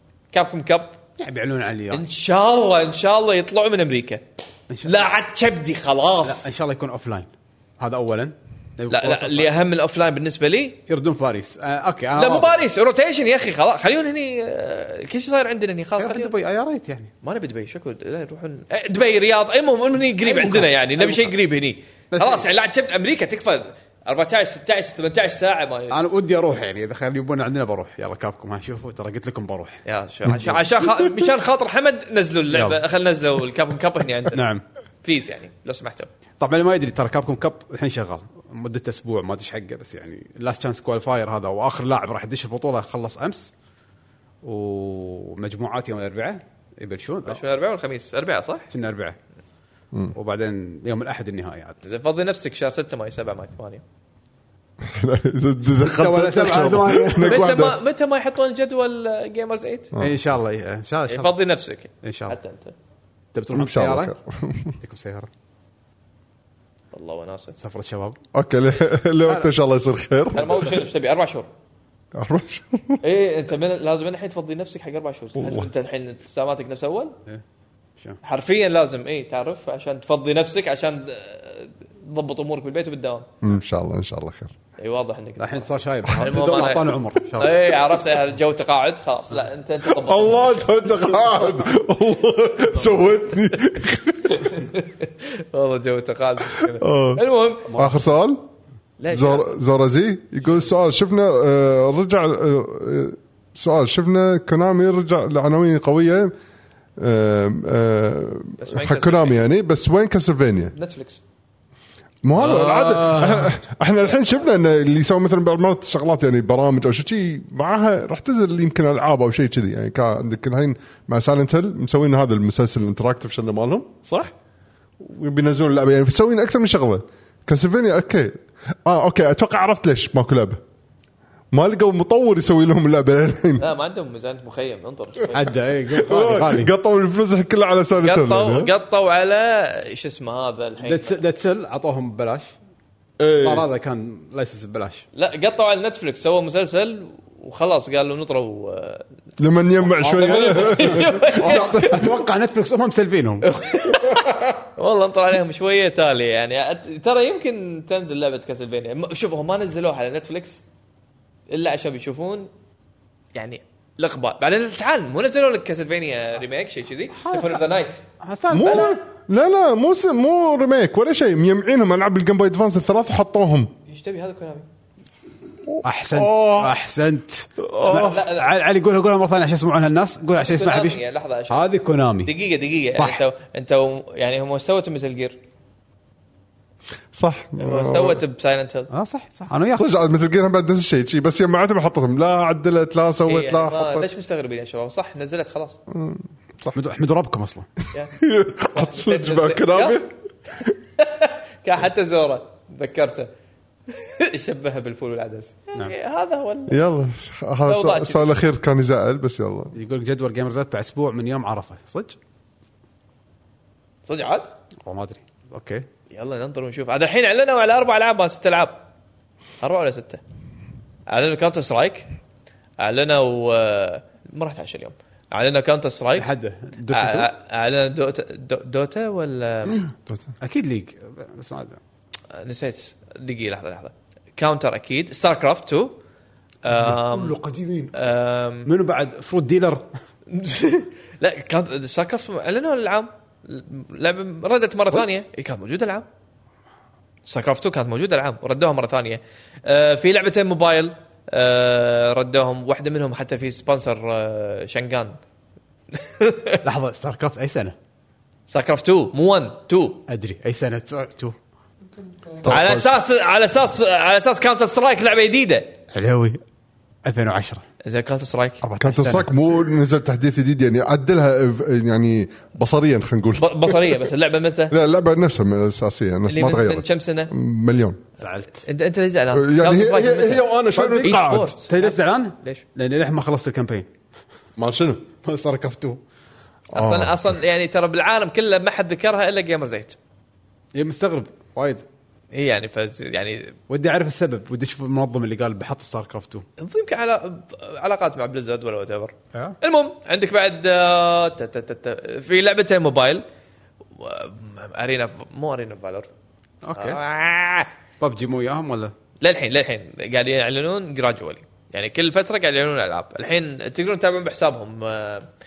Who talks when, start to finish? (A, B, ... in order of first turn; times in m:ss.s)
0:00.3-0:01.0 A
0:01.2-0:02.1 B
0:01.9-0:04.2 A
0:04.7-0:05.1 B
0:04.8-0:06.5 A
0:06.2-0:09.5 B
0:08.9-0:10.8 A
0:10.9-0:12.6 B
0:12.2-0:16.3 A
0:16.0-0:17.1 B
0:17.2-0:26.0 A
0:20.2-0:21.3 B
0:22.1-0:22.5 B
0:25.9-0:30.6 B
0:29.8-0:34.5 A
0:32.5-0:32.8 B
0:34.3-0:34.6 B
0:35.0-0:36.1 A
0:36.4-0:43.5 B
0:44.4-0:47.4 B
0:47.2-0:48.7 A
0:48.7-0:49.2 B
0:50.1-0:51.8 B
0:51.8-0:53.8 A
0:54.8-0:57.8 C
0:55.8-0:57.5 B
0:57.2-0:59.9 A
1:00.0-1:01.3 B
1:01.1-1:02.7 A
1:02.0-1:02.4 B
1:03.3-1:04.1 B
1:03.5-1:04.7 C
1:04.8-1:05.3 B
1:06.9-1:07.6 A
1:07.6-1:08.2 B
1:08.3-1:10.7 C
1:10.3-1:11.5 A
1:12.2-1:13.0 C
1:13.0-1:17.2 A
1:15.4-1:15.7 C
1:18.2-1:23.3 A
1:23.4-1:24.6 C
1:24.8-1:30.7 A
1:25.4-1:27.8 B
1:29.8-1:34.5 C
1:34.3-1:37.8 A
1:36.6-1:37.2 C
1:37.7-1:38.4 C
1:39.0-1:39.5 A
1:39.1-1:46.3 C
1:47.0-1:50.7 C
1:48.6-1:49.4 A
1:50.7-1:51.2 A
1:52.2-2:04.1 C
1:52.4-1:53.5 B
1:54.1-1:54.4 A
2:05.0-2:10.6 C
2:11.5-2:13.7 C
2:13.6-2:15.5 A
2:15.3-2:16.7 B
2:15.9-2:18.7 C
2:18.0-2:21.2 A
2:20.8-2:22.5 B
2:23.2-2:23.6 C
2:23.4-2:25.1 B
2:25.1-2:29.0 A
2:29.4-2:32.2 C
2:30.0-2:33.5 B
2:30.0-2:32.0 A
2:33.4-2:40.6 A
2:41.5-2:42.5 A
2:43.3-2:48.0 A
2:47.1-2:47.7 B
2:48.2-2:49.0 B
2:48.5-2:53.7 C
2:48.6-2:49.0 A
2:53.9-2:54.7 A
2:55.7-2:56.8 C
2:55.8-3:02.3 B
2:57.6-2:58.2 C
2:57.8-2:58.5 A
3:00.4-3:01.7 A
3:02.2-3:05.4 A
3:02.9-3:03.2 B
3:07.1-3:08.2 C
3:07.6-3:08.9 A
3:08.9-3:09.9 B
3:09.7-3:14.1 C
3:13.3-3:15.8 A
3:15.9-3:16.8 C
3:16.7-3:17.7 B
3:18.2-3:20.7 C
3:18.7-3:20.0 A
3:20.6-3:23.3 A
3:23.9-3:26.8 A
3:26.7-3:29.7 C
3:27.7-3:28.2 A
3:29.7-3:32.2 B
3:34.0-3:34.5 A
3:34.9-3:35.9 B
3:36.1-3:38.8 A
3:39.6-3:40.2 A
3:41.1-3:42.1 A
3:42.8-3:46.3 A
3:46.2-3:47.3 B
3:46.9-3:49.9 A
3:49.9-3:50.3 C
3:50.4-3:51.8 B
3:52.3-3:56.0 A
3:56.6-3:57.4 A
3:56.7-3:58.0 B
3:57.9-3:58.7 A
3:58.7-3:59.9 B
4:00.3-4:06.1 A
4:07.3-4:15.2 A
4:15.9-4:16.7 A
4:16.6-4:17.7 B
4:18.5-4:20.0 A
4:20.1-4:21.4 B
4:22.4-4:22.9 C
4:22.4-4:25.8 A
4:25.9-4:26.4 B
4:27.0-4:27.6 B
4:27.8-4:28.9 A
4:28.6-4:29.3 B
4:28.8-4:34.0 C
4:33.4-4:34.7 A
4:34.7-4:38.0 C
4:36.3-4:37.3 A
4:38.2-4:38.6 B
4:38.6-4:42.6 A
4:39.3-4:41.5 C
4:40.8-4:43.9 B
4:44.6-4:45.0 C
4:45.2-4:46.0 B
4:46.7-4:50.0 A
4:46.7-4:47.3 C
4:50.7-4:51.8 B
4:52.3-4:53.6 A
4:53.7-4:56.4 B
4:56.6-5:03.2 A
5:04.0-5:06.1 A
5:06.6-5:07.0 B
5:06.7-5:07.7 A
5:08.0-5:08.9 B
5:09.2-5:15.3 A